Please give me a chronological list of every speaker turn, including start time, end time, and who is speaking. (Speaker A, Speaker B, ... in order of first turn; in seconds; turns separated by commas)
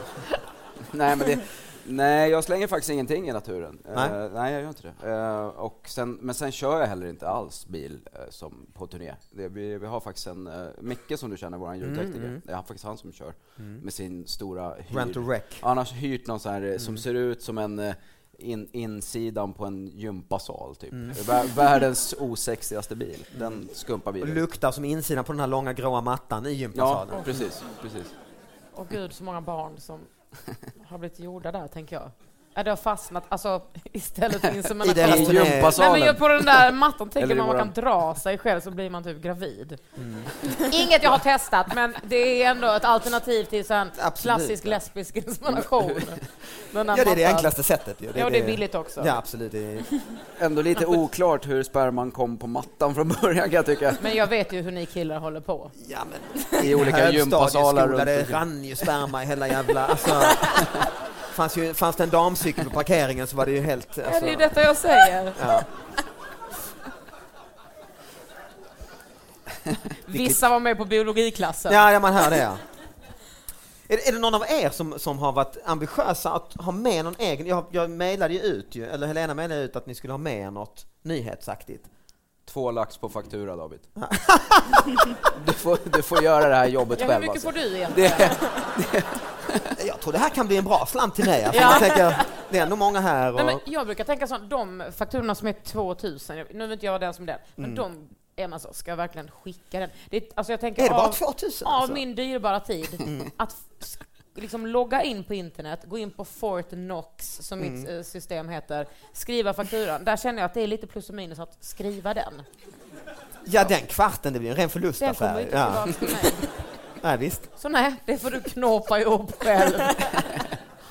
Speaker A: 0.9-24.4, Speaker B: 11.8-12.4, Speaker B: 14.9-15.6, Speaker B: 16.8-17.0, Speaker B: 23.3-23.6, Speaker B: 24.2-27.4, Speaker A: 26.7-28.1, Speaker C: 27.1-27.4, Speaker C: 28.7-30.1, Speaker C: 30.8-39.8, Speaker B: 34.8-35.8, Speaker A: 35.0-37.7, Speaker B: 40.0-40.3, Speaker C: 40.6-47.5, Speaker B: 44.0-44.8, Speaker B: 46.9-49.9, Speaker C: 48.1-49.1, Speaker A: 50.4-54.0, Speaker C: 54.0-55.7, Speaker B: 55.8-60.6, Speaker A: 56.6-58.4, Speaker B: 61.3-64.5, Speaker C: 64.0-65.5, Speaker B: 65.3-65.7, Speaker C: 70.1-71.9, Speaker B: 71.7-72.6, Speaker B: 73.9-81.9, Speaker A: 82.5-83.9, Speaker B: 84.0-85.1, Speaker A: 85.3-89.7, Speaker C: 87.0-88.3, Speaker B: 89.8-93.6, Speaker C: 91.5-91.9, Speaker C: 93.3-112.5, Speaker B: 97.6-97.8, Speaker B: 100.8-102.0, Speaker B: 103.0-103.3, Speaker B: 107.6-107.9, Speaker B: 113.5-116.2, Speaker C: 115.0-116.4, Speaker B: 117.0-117.5, Speaker C: 117.6-120.3